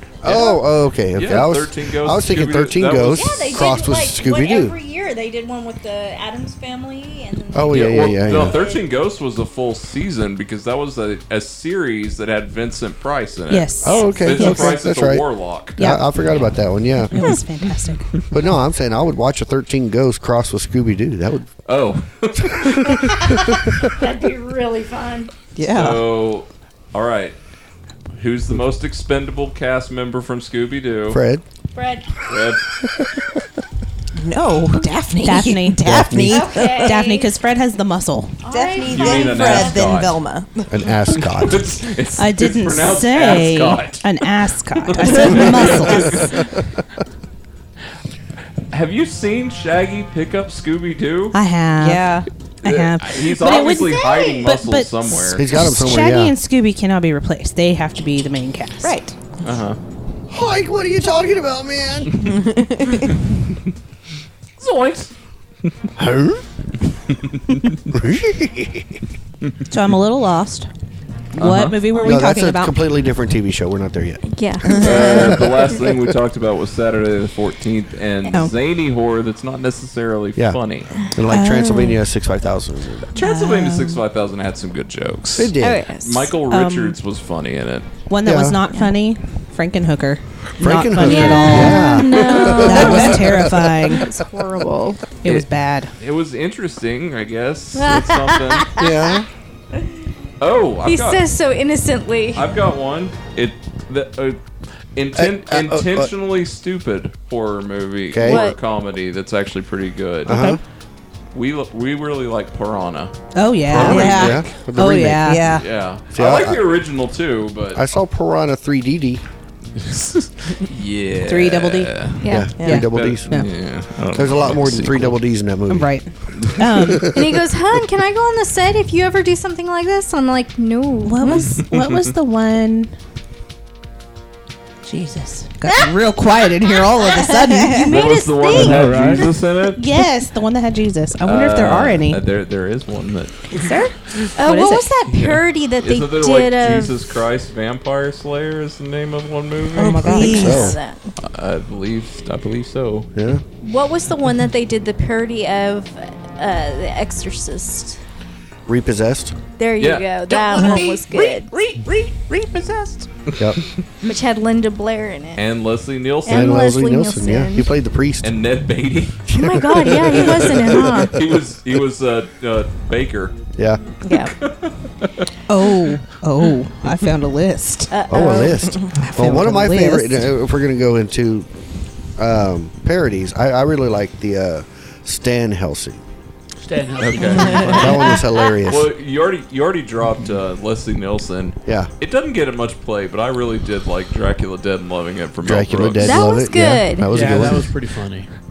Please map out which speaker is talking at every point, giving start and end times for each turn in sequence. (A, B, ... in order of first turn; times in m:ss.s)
0:00.2-0:04.8 A
0:00.2-0:03.6 B
0:03.0-0:08.9 C
0:07.5-0:08.6 A
0:07.7-0:15.8 B
0:13.5-0:14.8 D
0:13.8-0:17.3 A
0:15.8-0:16.0 D
0:17.1-0:18.0 D
0:18.3-0:21.5 A
0:21.6-0:23.3 B
0:22.4-0:23.7 A
0:23.3-0:25.3 C
0:25.6-0:26.1 E
0:25.7-0:27.3 B
0:28.2-0:31.2 B
0:31.1-0:31.4 A
0:31.7-0:32.2 C
0:32.3-0:32.6 B
0:34.1-0:37.0 E
0:35.2-0:36.2 D
0:35.8-0:36.6 A
0:36.3-0:37.3 C
0:36.8-0:38.4 D
0:38.4-0:40.0 C
0:38.5-0:40.8 E
0:38.9-0:40.1 B
0:40.7-0:41.7 A
0:41.1-0:44.0 B
0:42.2-0:46.2 D
0:45.0-0:46.5 B
0:45.0-0:46.1 E
0:48.7-0:51.4 B
0:51.3-0:59.0 D
0:51.8-0:52.3 E
0:52.6-0:55.4 B
0:53.4-0:54.4 C
0:55.3-0:56.3 A
0:58.8-0:59.2 E
0:59.4-0:59.8 B
1:00.3-1:02.2 A
1:02.2-1:03.1 E
1:04.6-1:05.1 B
1:06.0-1:06.4 A
1:07.8-1:09.0 A
1:09.7-1:10.7 D
1:11.3-1:12.7 D
1:11.4-1:11.8 B
1:12.0-1:14.2 A
1:14.2-1:15.8 C
1:14.6-1:15.4 E
1:14.7-1:20.9 B
1:15.0-1:16.1 A
1:20.4-1:23.1 A
1:21.3-1:22.0 D
1:23.1-1:27.9 B
1:23.2-1:24.0 E
1:25.4-1:25.9 A
1:25.6-1:26.3 C
1:26.5-1:27.0 D
1:28.1-1:32.0 D
1:28.2-1:28.6 A
1:30.6-1:33.4 A
1:31.0-1:35.0 C
1:32.4-1:32.8 B
1:32.6-1:34.0 D
1:35.2-1:35.9 D
1:36.0-1:38.7 B
1:37.8-1:38.9 C
1:38.8-1:39.3 A
1:40.4-1:41.2 B
1:40.8-1:42.4 C
1:42.3-1:44.4 B
1:45.0-1:50.5 B
1:45.1-1:46.1 A
1:48.1-1:48.4 A
1:48.2-1:48.6 C
1:50.2-1:50.6 A
1:50.3-1:50.6 D
1:51.3-1:53.1 B
1:53.3-1:54.2 D
1:53.6-1:55.5 A
1:53.7-1:54.5 B
1:53.8-1:54.4 E
1:54.8-1:55.4 D
1:55.2-1:55.6 E
1:55.5-1:57.8 B
1:56.1-1:56.7 A
1:57.7-1:59.2 A
1:59.8-2:05.2 B
2:01.2-2:02.0 D
2:02.2-2:02.5 C
2:02.2-2:03.4 A
2:02.5-2:03.5 D
2:02.6-2:02.9 E
2:04.1-2:05.9 A
2:05.7-2:07.1 D
2:06.3-2:06.6 B
2:06.8-2:07.4 A
2:07.1-2:11.6 C
2:11.0-2:13.0 D
2:11.3-2:11.6 B
2:14.8-2:17.9 D
2:17.0-2:19.3 C
2:17.9-2:19.8 B
2:18.5-2:19.4 F
2:19.7-2:22.2 D
2:21.2-2:24.3 B
2:23.5-2:24.9 D
2:24.4-2:27.0 C
2:25.0-2:30.1 B
2:29.7-2:30.7 E
2:29.8-2:30.8 D
2:30.0-2:31.1 C
2:30.3-2:30.8 A
2:31.2-2:33.1 B
2:33.1-2:33.4 A
2:33.6-2:38.0 C
2:38.7-2:39.4 A
2:39.6-2:41.5 C
2:39.8-2:43.8 B
2:43.4-2:43.6 A
2:44.0-2:45.4 C
2:45.4-2:46.6 B
2:46.2-2:47.7 C
2:46.2-2:48.4 A
2:48.2-2:49.3 B
2:49.3-2:51.1 A
2:49.3-2:51.2 C
2:50.3-2:53.4 B
2:53.6-2:53.8 A
2:54.0-2:54.3 C
2:54.2-2:55.2 B
2:55.5-3:00.3 D
2:57.9-2:58.7 C
2:58.1-3:01.5 A
3:02.2-3:06.0 A
3:06.6-3:08.2 F
3:07.0-3:08.0 B
3:07.6-3:08.2 C
3:07.7-3:08.9 A
3:08.6-3:16.2 B
3:11.6-3:11.9 A
3:15.4-3:17.7 A
3:16.0-3:17.3 C
3:17.0-3:18.3 F